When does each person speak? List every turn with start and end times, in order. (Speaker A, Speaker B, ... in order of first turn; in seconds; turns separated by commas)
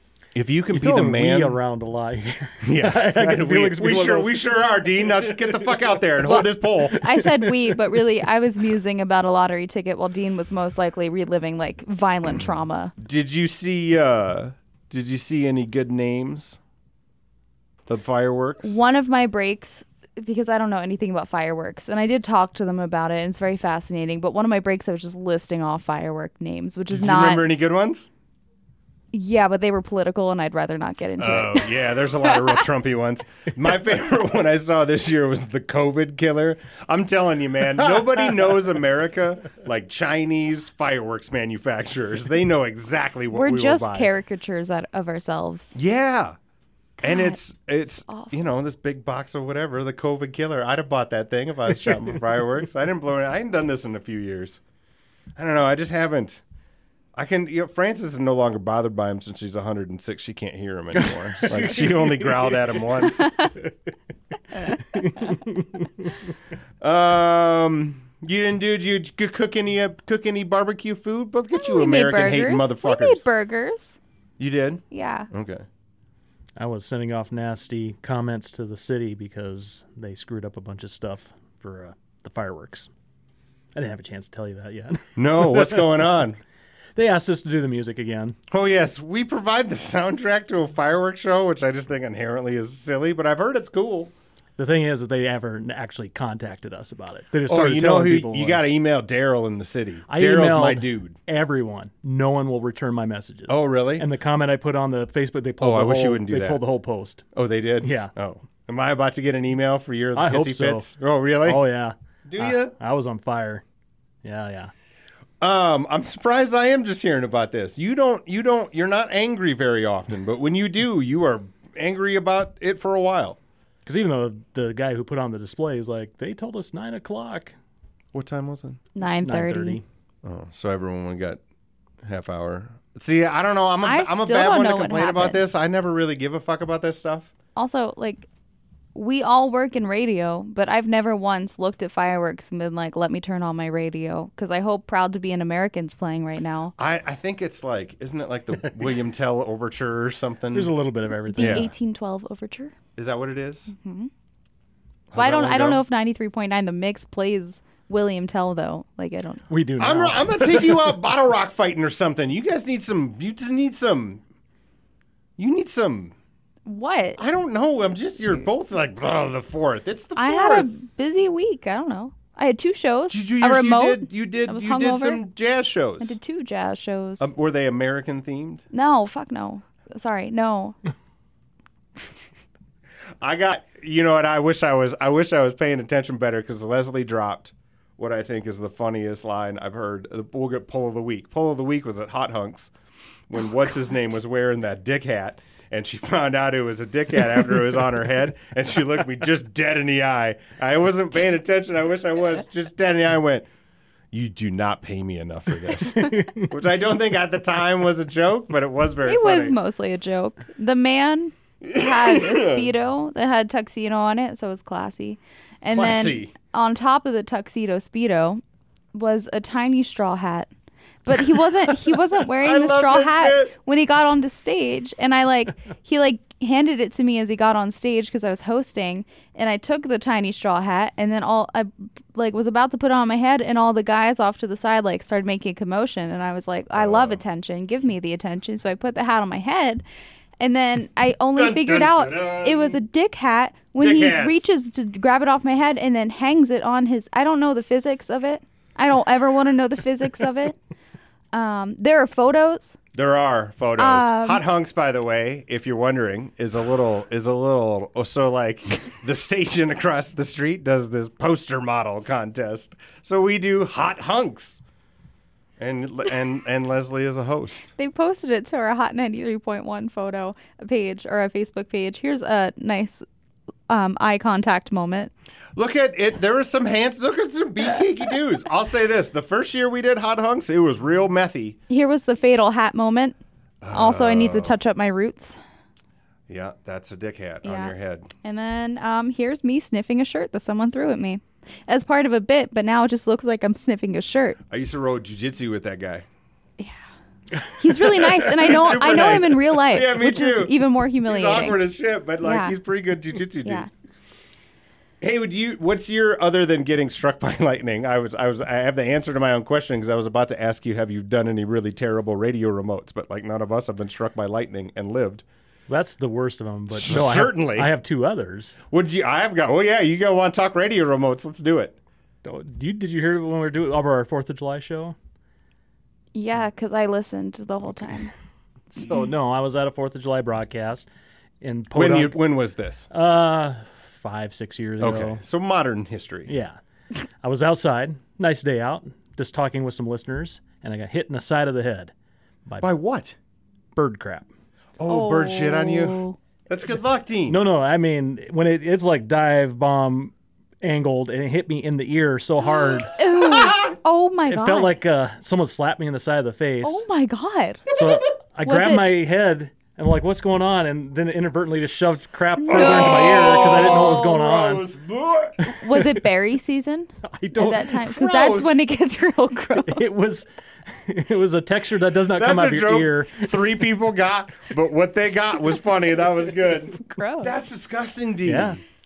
Speaker A: 0.3-1.6, Speaker B: 0.7-4.4, Speaker A: 2.6-7.0, Speaker B: 6.3-7.8, Speaker C: 6.9-12.9, Speaker A: 13.0-16.6, Speaker A: 17.9-18.8, Speaker C: 18.6-27.4, Speaker A: 26.9-28.1, Speaker C: 29.1-32.6, Speaker A: 31.2-44.1, Speaker C: 43.3-45.8, Speaker A: 45.8-46.4, Speaker A: 47.0-54.6, Speaker C: 47.0-47.4, Speaker C: 48.0-48.5, Speaker A: 55.4-56.4, Speaker A: 57.1-63.3, Speaker B: 61.3-62.7, Speaker C: 64.7-65.2, Speaker B: 64.9-65.9, Speaker A: 66.8-73.2, Speaker C: 71.6-74.0, Speaker A: 74.4-75.7, Speaker C: 74.9-75.3, Speaker B: 76.6-82.9, Speaker B: 83.8-85.9, Speaker A: 85.2-86.4, Speaker B: 87.0-88.3, Speaker A: 88.5-94.1, Speaker B: 94.6-98.6, Speaker A: 97.5-101.2, Speaker B: 100.1-107.2, Speaker A: 103.5-104.1, Speaker A: 105.6-106.6, Speaker A: 107.3-111.6, Speaker B: 107.8-108.1, Speaker B: 110.1-113.6, Speaker A: 112.3-112.7, Speaker B: 114.2-114.7, Speaker A: 115.4-123.4, Speaker B: 123.9-127.5, Speaker A: 128.1-128.8, Speaker C: 128.9-129.8, Speaker B: 129.0-129.8, Speaker A: 130.2-131.4, Speaker A: 132.1-137.3, Speaker C: 133.8-135.4, Speaker C: 137.6-138.3, Speaker C: 138.9-146.7, Speaker A: 146.8-150.7, Speaker B: 150.5-151.7, Speaker C: 151.3-152.7, Speaker A: 151.4-151.7, Speaker A: 152.9-153.7, Speaker C: 153.7-154.1, Speaker A: 155.1-155.8, Speaker C: 155.1-159.4, Speaker B: 159.5-161.0, Speaker A: 159.8-164.2, Speaker A: 165.4-166.1, Speaker C: 166.7-167.2, Speaker A: 167.2-170.7, Speaker C: 170.2-175.2, Speaker A: 173.1-176.2, Speaker C: 176.0-177.3, Speaker A: 177.2-178.6, Speaker C: 178.7-180.8, Speaker A: 183.2-192.7, Speaker A: 193.3-203.5, Speaker A: 204.1-209.6, Speaker B: 206.2-206.4, Speaker C: 209.1-218.4, Speaker A: 211.6-212.7, Speaker A: 215.7-216.3, Speaker C: 218.9-220.5, Speaker C: 221.0-239.8, Speaker A: 222.2-223.6, Speaker A: 236.7-237.2, Speaker C: 240.4-250.6, Speaker A: 241.3-242.8, Speaker A: 243.8-244.5, Speaker C: 251.3-252.8, Speaker A: 252.9-264.6, Speaker C: 253.8-254.4, Speaker A: 265.6-267.7, Speaker C: 267.8-273.1, Speaker C: 273.7-275.1, Speaker A: 275.6-281.6, Speaker C: 281.7-283.2, Speaker A: 283.6-284.6, Speaker C: 283.7-285.4, Speaker A: 286.3-288.1, Speaker C: 287.4-294.4, Speaker A: 294.5-296.1, Speaker C: 297.4-301.6, Speaker B: 297.8-298.5, Speaker A: 298.3-303.7, Speaker C: 302.2-302.6, Speaker C: 303.4-303.7, Speaker A: 305.0-315.2, Speaker B: 315.7-318.6, Speaker A: 316.7-317.7, Speaker A: 318.7-321.8, Speaker B: 322.2-324.9, Speaker C: 326.1-328.1, Speaker B: 328.7-330.9, Speaker B: 331.4-332.2, Speaker A: 331.7-332.9, Speaker B: 332.9-335.2, Speaker A: 334.8-336.3, Speaker B: 336.3-336.6, Speaker B: 337.2-341.9, Speaker A: 342.6-343.1, Speaker B: 343.8-344.3, Speaker A: 344.8-347.4, Speaker C: 344.9-346.1, Speaker B: 347.3-352.9, Speaker C: 352.9-354.8, Speaker A: 353.2-353.7, Speaker B: 354.3-356.8, Speaker C: 356.6-357.8, Speaker B: 357.7-364.6, Speaker C: 358.4-358.9, Speaker C: 362.4-363.9, Speaker A: 362.5-365.4, Speaker C: 365.5-369.8, Speaker B: 367.0-367.8, Speaker A: 367.9-368.7, Speaker B: 369.6-373.3, Speaker A: 372.1-378.6, Speaker C: 376.8-377.3, Speaker B: 378.2-378.6